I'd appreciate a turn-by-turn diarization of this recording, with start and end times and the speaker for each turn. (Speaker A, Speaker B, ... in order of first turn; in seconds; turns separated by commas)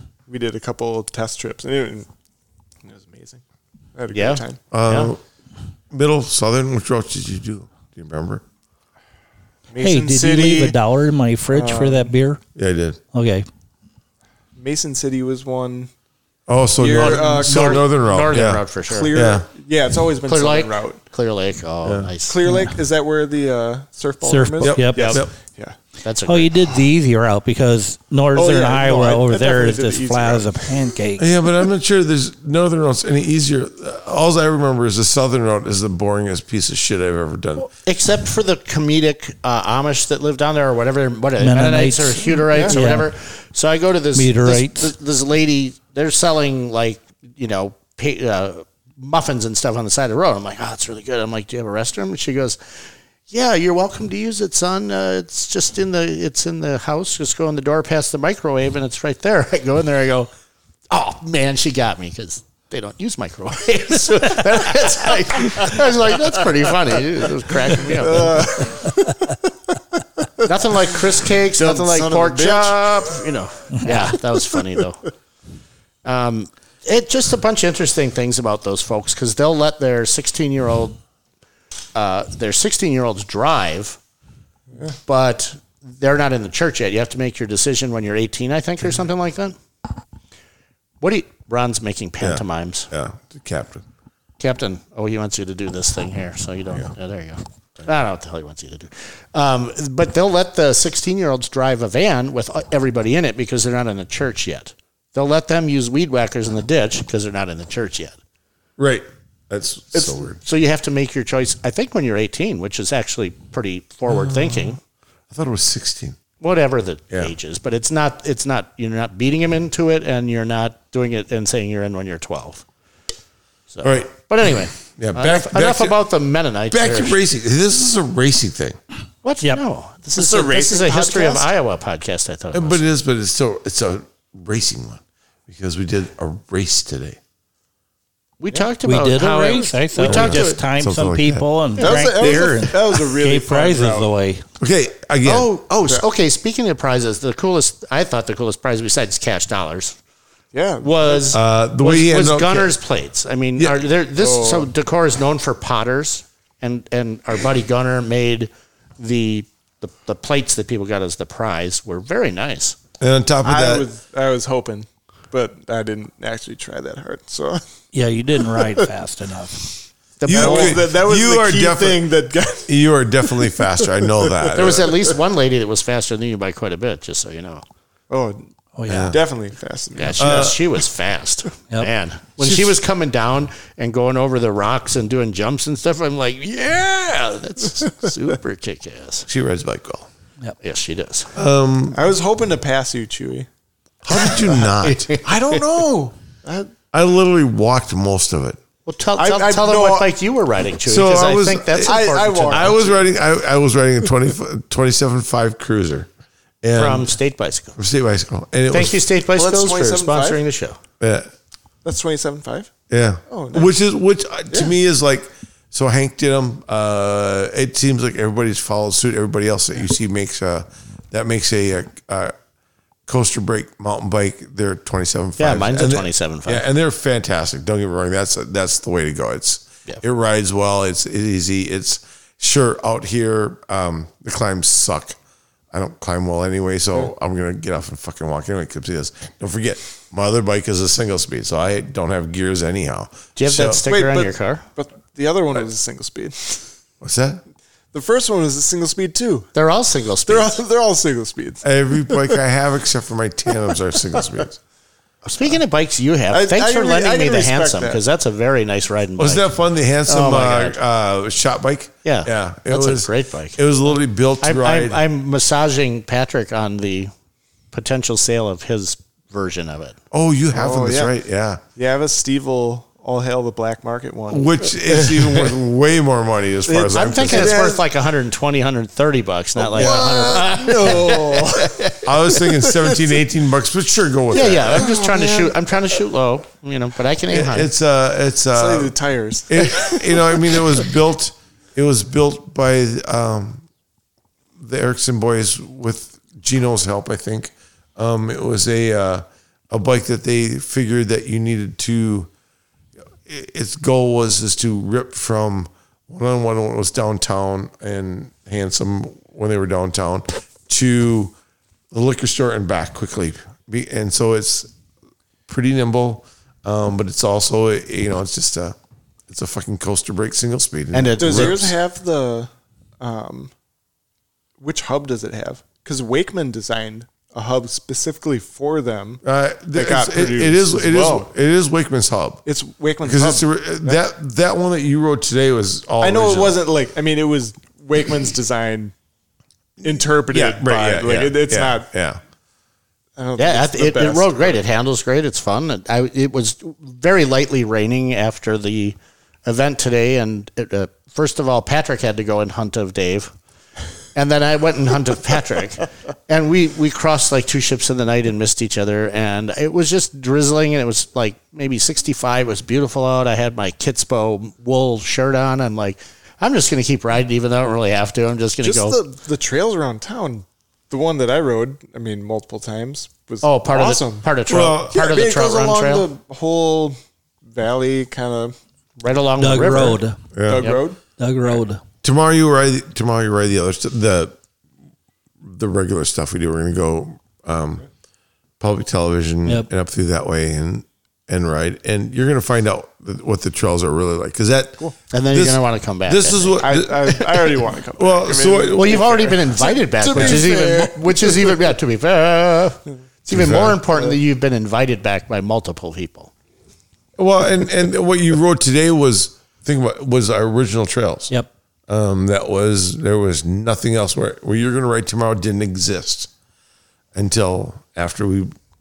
Speaker A: 0.3-2.1, Speaker A: 2.8-3.4, Speaker A: 4.0-4.6, Speaker B: 4.1-5.1, Speaker C: 4.7-5.2, Speaker C: 5.9-8.4, Speaker A: 9.7-10.8, Speaker D: 9.8-12.4, Speaker A: 11.5-12.1, Speaker C: 12.6-13.0, Speaker D: 13.1-13.4, Speaker A: 14.6-15.9, Speaker C: 16.5-19.5, Speaker A: 16.8-17.9, Speaker B: 16.9-19.1, Speaker A: 18.9-21.0, Speaker B: 20.3-22.4, Speaker C: 21.8-22.1, Speaker A: 22.2-25.8, Speaker D: 22.4-22.7, Speaker D: 24.2-25.2, Speaker C: 24.6-25.3, Speaker B: 26.0-26.5, Speaker D: 26.2-31.3, Speaker A: 28.3-30.8, Speaker C: 31.2-37.7, Speaker B: 37.8-52.6, Speaker D: 41.4-43.1, Speaker A: 42.5-42.8, Speaker D: 44.1-44.9, Speaker B: 53.3-60.3, Speaker B: 60.9-68.5, Speaker A: 67.7-73.0, Speaker B: 70.4-75.1, Speaker B: 76.0-81.0, Speaker B: 81.9-84.0, Speaker B: 85.0-89.6, Speaker B: 91.0-92.9, Speaker C: 92.2-93.8, Speaker B: 94.4-108.2, Speaker C: 108.8-110.4, Speaker B: 110.4-114.8, Speaker C: 114.1-114.8, Speaker C: 115.3-116.2, Speaker B: 116.4-122.6, Speaker B: 123.7-127.2, Speaker C: 123.8-126.0, Speaker C: 126.7-128.8, Speaker B: 129.2-132.8, Speaker A: 130.2-131.5, Speaker C: 132.5-137.2, Speaker B: 138.4-140.6, Speaker D: 138.8-144.4, Speaker C: 140.0-141.4, Speaker A: 141.8-144.1, Speaker C: 144.6-146.0, Speaker B: 145.2-150.0, Speaker A: 150.5-151.3, Speaker B: 150.8-162.8, Speaker C: 151.3-152.8, Speaker C: 153.6-153.8, Speaker A: 154.2-154.7, Speaker C: 163.0-163.9, Speaker A: 163.4-167.6, Speaker D: 167.9-169.7, Speaker B: 170.2-170.8, Speaker C: 170.2-172.1, Speaker A: 170.3-172.7, Speaker C: 172.7-175.0, Speaker A: 174.0-174.9, Speaker B: 174.5-177.6, Speaker A: 178.1-180.6, Speaker D: 178.8-179.2, Speaker C: 178.9-179.2, Speaker B: 179.9-189.3, Speaker C: 180.2-180.6, Speaker C: 182.4-182.7, Speaker C: 189.3-190.1, Speaker B: 190.6-191.3, Speaker C: 191.3-192.0, Speaker A: 191.9-193.5, Speaker C: 194.0-195.1, Speaker B: 194.2-195.2, Speaker A: 195.2-196.7, Speaker C: 196.9-198.6, Speaker B: 198.8-202.8, Speaker A: 199.2-200.1, Speaker C: 200.8-206.1, Speaker A: 201.8-202.9, Speaker C: 206.6-207.1, Speaker B: 206.7-207.8, Speaker C: 207.8-209.0, Speaker B: 208.7-210.8, Speaker A: 209.3-210.4, Speaker C: 211.0-211.3, Speaker A: 211.8-212.7, Speaker C: 212.9-222.3, Speaker A: 213.3-213.7, Speaker C: 223.1-235.2, Speaker B: 225.4-226.7, Speaker C: 235.7-243.8, Speaker B: 243.3-244.6, Speaker A: 243.8-246.7, Speaker C: 247.0-247.4, Speaker A: 247.9-249.5, Speaker B: 249.5-250.6, Speaker A: 250.2-252.4, Speaker C: 251.6-254.6, Speaker B: 255.2-259.5, Speaker A: 256.3-258.0, Speaker C: 259.2-265.0, Speaker B: 260.1-260.8, Speaker B: 262.0-263.6, Speaker B: 264.4-267.1, Speaker B: 267.7-270.0, Speaker C: 270.1-271.6, Speaker A: 270.5-271.1, Speaker A: 271.8-275.6, Speaker C: 274.3-277.6, Speaker A: 276.7-277.8, Speaker B: 276.9-282.1, Speaker A: 279.6-283.1, Speaker C: 279.7-280.2, Speaker C: 282.0-285.0, Speaker B: 284.3-287.7, Speaker A: 284.7-285.5, Speaker C: 287.3-288.9, Speaker A: 288.5-290.9, Speaker C: 289.5-293.6, Speaker C: 294.6-302.3, Speaker C: 303.2-311.3, Speaker C: 311.9-314.7, Speaker C: 315.5-318.8, Speaker C: 319.3-321.7, Speaker B: 320.9-321.7, Speaker A: 321.2-323.5, Speaker A: 324.6-329.2, Speaker C: 329.2-332.4, Speaker A: 329.7-331.3, Speaker A: 332.4-334.0, Speaker C: 333.0-336.6, Speaker A: 336.0-338.9, Speaker A: 339.8-341.9, Speaker C: 340.3-342.2, Speaker A: 343.2-344.6, Speaker B: 343.4-353.3, Speaker B: 354.1-369.0, Speaker A: 368.6-377.0, Speaker B: 373.4-376.1, Speaker C: 374.5-375.0, Speaker A: 377.5-378.6, Speaker B: 379.0-380.0, Speaker D: 379.4-381.8, Speaker C: 380.3-380.7, Speaker A: 380.5-381.0, Speaker C: 382.0-384.3, Speaker C: 385.4-387.8, Speaker C: 388.6-399.2, Speaker B: 395.1-396.6, Speaker A: 396.6-401.6, Speaker B: 398.7-406.3, Speaker C: 400.1-400.4, Speaker C: 403.3-403.8, Speaker A: 403.9-404.2, Speaker C: 407.2-411.3, Speaker C: 411.9-416.3, Speaker C: 417.1-418.5